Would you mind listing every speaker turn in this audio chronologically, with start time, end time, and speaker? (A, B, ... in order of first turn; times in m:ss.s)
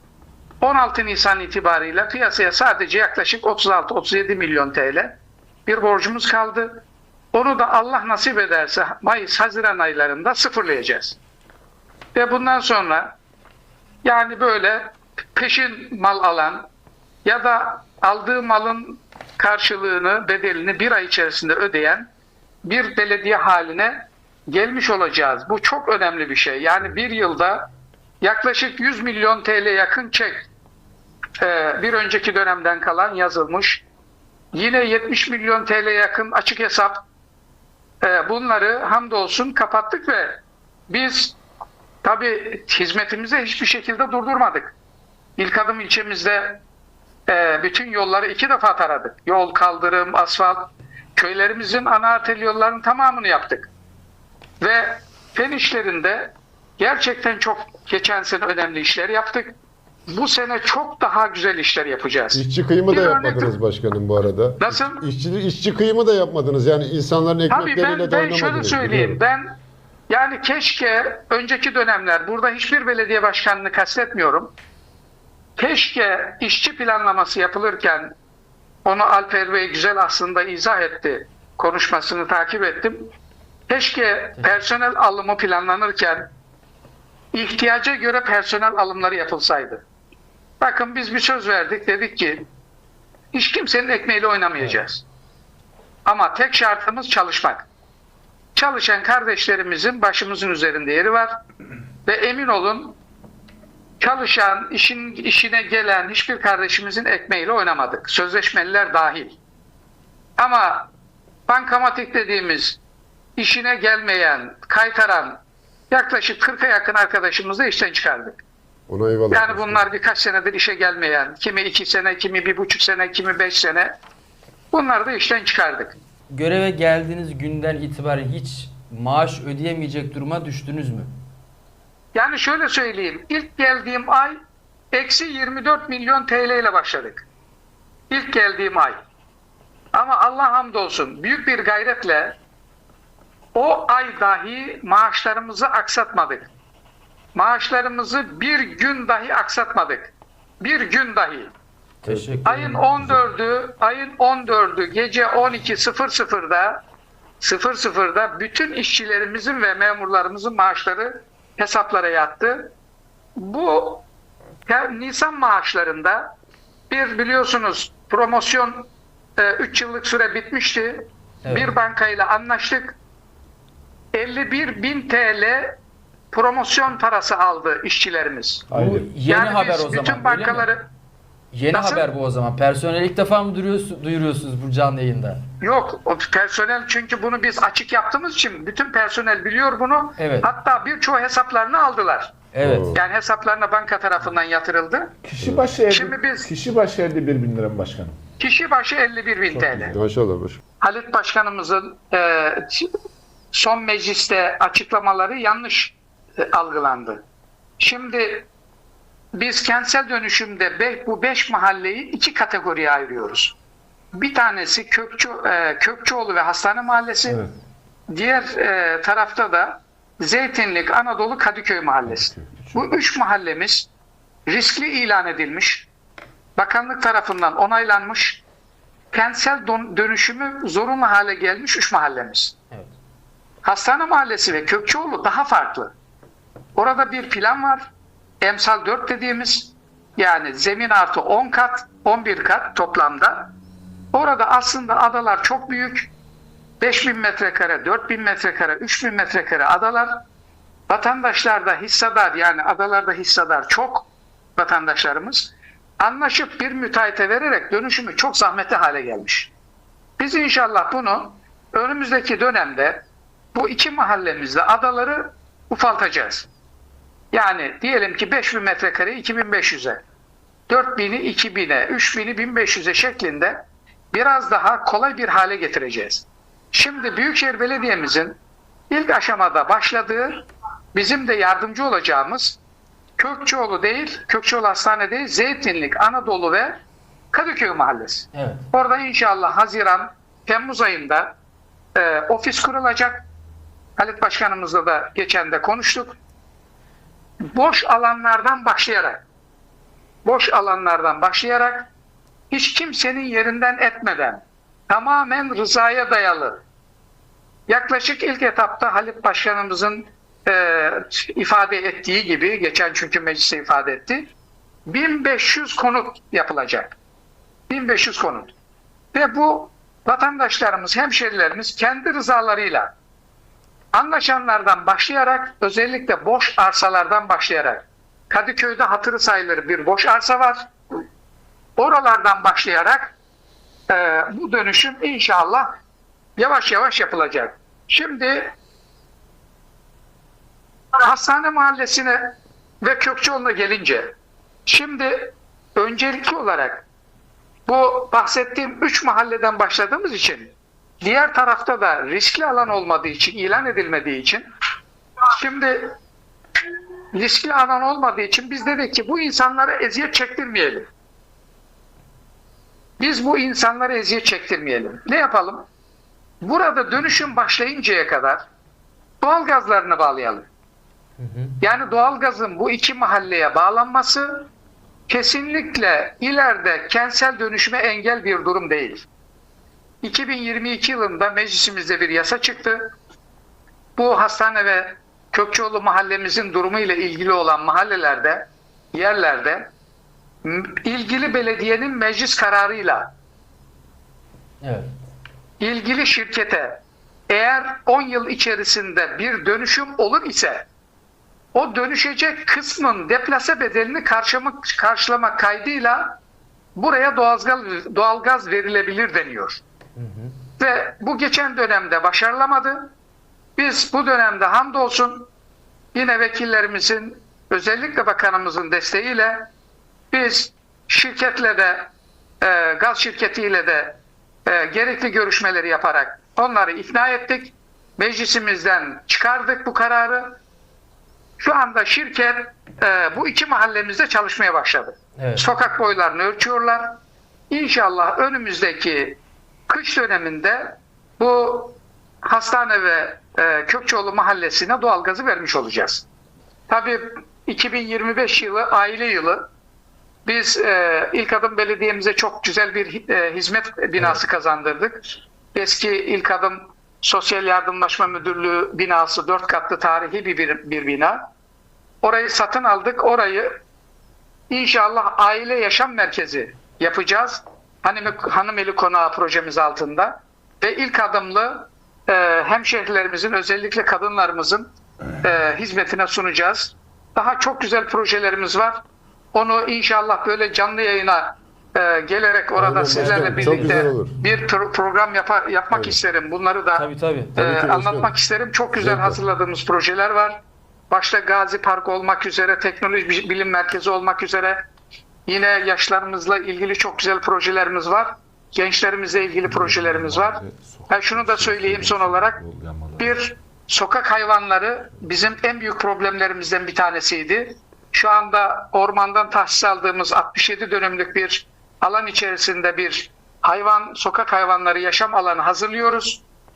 0:00.6-0:11.2 A
0:12.1-0:13.1 A
0:14.0-0:16.7 A
0:17.2-0:22.1 A
0:22.6-0:27.7 A
0:28.2-0:30.5 A
0:31.4-0:33.8 A
0:34.5-0:37.0 A
0:38.0-0:41.4 A
0:42.0-0:44.8 A
0:45.4-0:46.6 A
0:47.3-0:53.7 A
0:54.6-0:59.6 A
1:00.1-1:03.6 A
1:02.3-1:09.2 B
1:04.6-1:05.0 A
1:07.5-1:09.5 A
1:10.1-1:14.6 A
1:15.6-1:18.1 A
1:18.8-1:23.1 A
1:23.7-1:26.3 A
1:27.3-1:29.8 A
1:30.6-1:32.5 A
1:33.3-1:35.0 A
1:36.0-1:37.7 A
1:38.6-1:41.4 A
1:42.0-1:43.0 A
1:44.0-1:49.4 A
1:50.4-1:50.9 A
1:51.5-1:52.8 A
1:53.4-1:58.4 A
1:58.9-1:59.9 B
1:59.3-2:03.9 A
2:04.7-2:06.0 A
2:06.3-2:11.1 C
2:12.1-2:14.4 A
2:14.9-2:17.3 A
2:18.1-2:19.0 A
2:19.9-2:22.4 A
2:23.6-2:26.5 A
2:27.4-2:31.5 A
2:32.0-2:32.8 C
2:32.1-2:33.2 D
2:32.4-2:36.8 A
2:37.4-2:42.7 A
2:43.4-2:44.0 A
2:44.7-2:46.3 A
2:46.9-2:53.0 A
2:51.4-2:51.7 C
2:54.1-2:55.8 A
2:56.3-2:58.7 A
2:58.7-2:59.1 D
2:58.7-3:00.7 C
2:59.3-3:00.8 A
3:01.5-3:05.4 C
3:01.7-3:02.1 A
3:05.6-3:15.1 A
3:10.2-3:10.5 C
3:12.5-3:13.0 C
3:12.6-3:13.0 B
3:15.2-3:18.2 D
3:15.4-3:15.7 B
3:15.9-3:16.5 A
3:18.4-3:20.0 A
3:19.5-3:20.0 D
3:19.9-3:20.6 B
3:20.8-3:22.9 A
3:23.5-3:27.2 A
3:27.8-3:28.5 A
3:29.3-3:33.6 A
3:34.1-3:37.4 A
3:38.1-3:43.9 A
3:42.1-3:42.8 D
3:44.5-3:45.9 A
3:46.6-3:48.4 A
3:49.1-3:52.6 A
3:53.6-3:55.9 A
3:56.8-3:57.9 A
3:58.4-4:03.5 A
4:04.1-4:06.1 A
4:06.8-4:10.2 A
4:10.9-4:19.5 A
4:20.2-4:26.5 A
4:27.3-4:30.0 A
4:30.7-4:38.4 A
4:38.9-4:42.6 A
4:43.2-4:46.8 A
4:47.3-4:51.4 A
4:48.3-4:48.6 C
4:52.0-4:53.3 A
4:54.0-4:56.2 A
4:57.5-4:59.2 A
5:00.2-5:01.9 A
5:02.5-5:06.6 A
5:07.7-5:14.3 A
5:14.9-5:17.0 A
5:17.7-5:18.6 A
5:19.1-5:22.9 A
5:23.9-5:30.7 A
5:31.8-5:33.1 A
5:33.9-5:35.7 A
5:36.4-5:38.5 A
5:41.0-5:44.1 A
5:44.7-5:46.8 A
5:47.7-5:54.4 A
5:55.3-5:55.9 A
5:57.1-6:00.9 A
6:03.0-6:05.7 A
6:06.4-6:08.4 A
6:09.2-6:10.5 A
6:11.2-6:11.5 C
6:11.6-6:14.5 A
6:15.1-6:19.1 A
6:20.0-6:22.9 A
6:24.0-6:29.7 A
6:30.4-6:33.1 A
6:34.6-6:34.9 C
6:35.6-6:40.7 A
6:41.5-6:46.2 A
6:46.8-6:49.6 A
6:50.0-6:50.3 C
6:50.6-6:52.9 A
6:53.6-6:55.3 A
6:55.9-6:59.5 A
7:00.1-7:10.4 A
7:11.4-7:26.1 A
7:15.2-7:15.4 C
7:26.7-7:29.5 A
7:30.3-7:41.2 A
7:42.0-7:43.6 A
7:44.5-7:54.7 A
7:55.2-7:58.8 A
7:59.3-8:14.6 A
8:02.6-8:04.2 B
8:02.9-8:03.9 C
8:06.8-8:07.4 C
8:07.4-8:08.1 B
8:08.8-8:09.2 B
8:15.3-8:22.4 A
8:19.4-8:23.2 D
8:23.0-8:36.2 A